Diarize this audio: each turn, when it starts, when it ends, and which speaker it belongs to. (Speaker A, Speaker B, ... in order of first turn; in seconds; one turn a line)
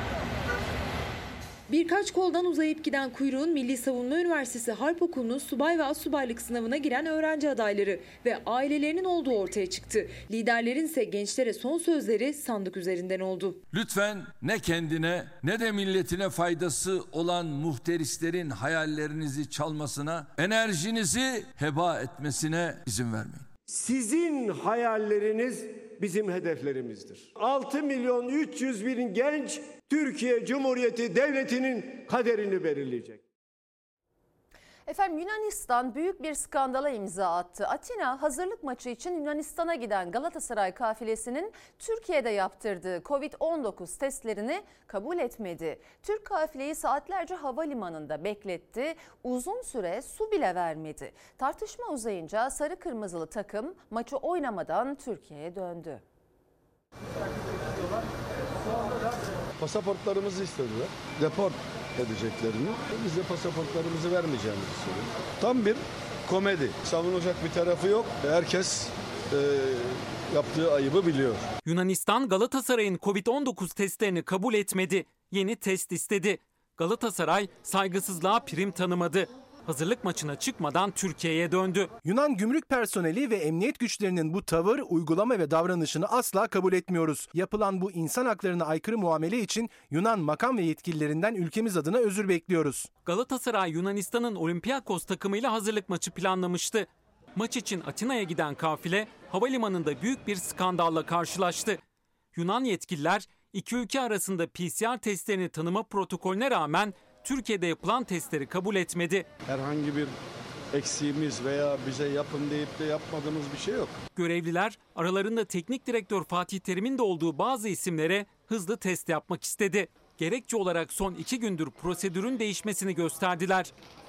Speaker A: 1.7-13.6
Speaker B: 13.7-23.5
Speaker C: 23.7-33.2
Speaker D: 34.9-56.0
Speaker E: 59.6-71.5
Speaker F: 71.6-81.9
Speaker G: 82.0-92.9
Speaker F: 93.0-101.8
Speaker F: 102.3-109.3
Speaker E: 109.4-110.2
Speaker E: 110.7-114.0
Speaker F: 114.2-123.7